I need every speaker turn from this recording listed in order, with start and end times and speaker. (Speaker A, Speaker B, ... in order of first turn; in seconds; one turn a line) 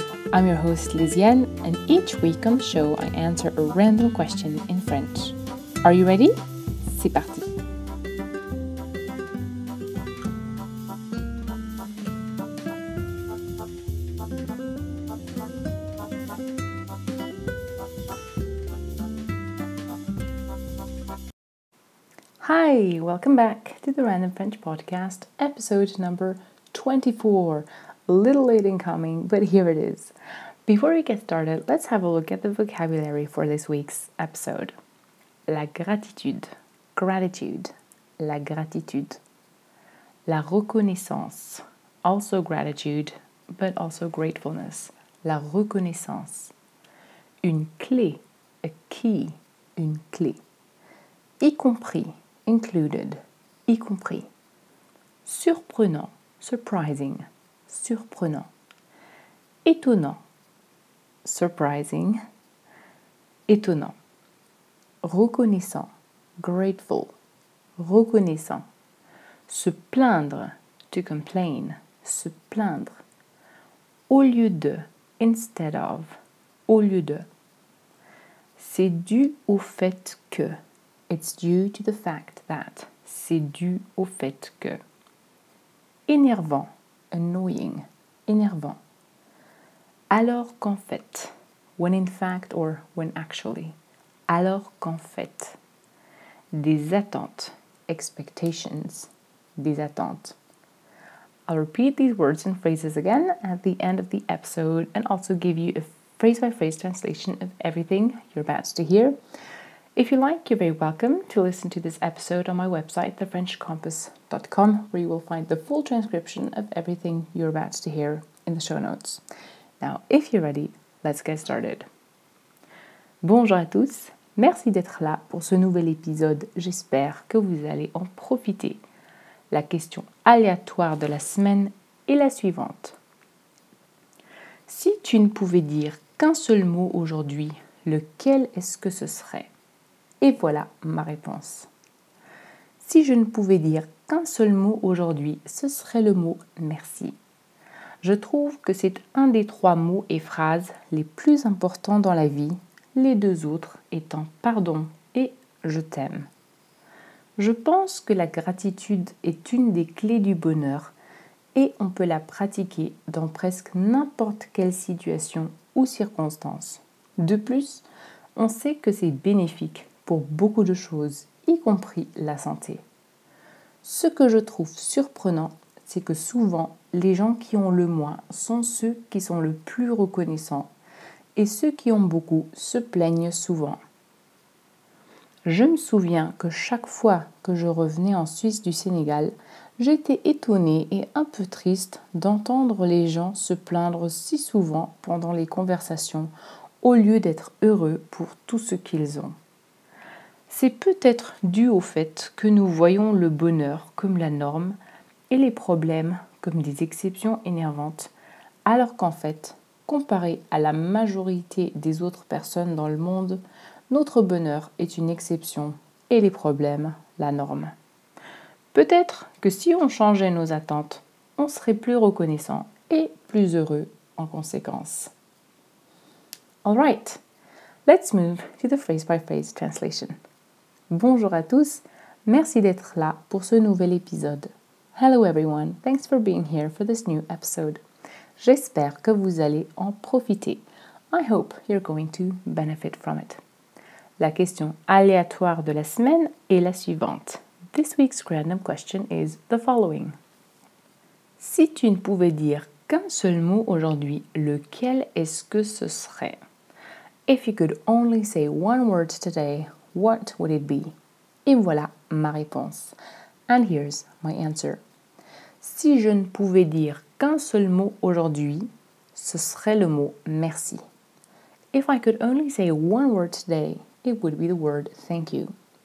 Speaker A: 0.3-7.5
Speaker A: 22.4-30.1
Speaker A: 30.6-34.7
Speaker A: 35.5-39.2
Speaker A: 40.3-46.5
Speaker A: 47.4-50.4
Speaker A: 51.4-54.3
Speaker A: 55.2-58.5
Speaker A: 59.6-60.2
Speaker A: 61.2-62.2
Speaker A: 63.5-64.0
Speaker A: 65.0-67.1
Speaker A: 67.8-68.6
Speaker A: 69.5-73.0
Speaker A: 74.1-77.3
Speaker A: 78.6-80.6
Speaker A: 81.1-84.8
Speaker A: 86.1-88.8
Speaker A: 90.1-93.8
Speaker A: 94.3-95.6
Speaker A: 96.5-100.3
Speaker A: 101.5-109.2
Speaker A: 109.9-119.2
Speaker A: 119.8-121.8
Speaker A: 123.2-128.8
Speaker A: 129.5-133.0
Speaker A: 134.7-139.5
Speaker A: 140.2-141.7
Speaker A: 142.8-147.2
Speaker A: 148.0-156.3
Speaker A: 157.4-160.9
Speaker A: 161.5-167.8
Speaker A: 168.3-172.8
Speaker A: 173.8-180.7
Speaker A: 181.3-183.8
Speaker A: 185.4-196.3
Speaker A: 196.8-199.3
Speaker A: 200.5-204.8
Speaker A: 205.3-208.1
Speaker A: 208.7-217.7
Speaker A: 218.7-225.1
Speaker A: 226.6-227.2
Speaker A: 227.8-230.1
Speaker A: 230.9-237.8
Speaker A: 238.4-243.4
Speaker A: 244.2-250.2
Speaker A: 251.4-256.4
Speaker A: 257.3-260.9
Speaker A: 261.4-262.9
Speaker A: 263.5-264.8
Speaker A: 265.6-270.8
Speaker A: 271.7-275.5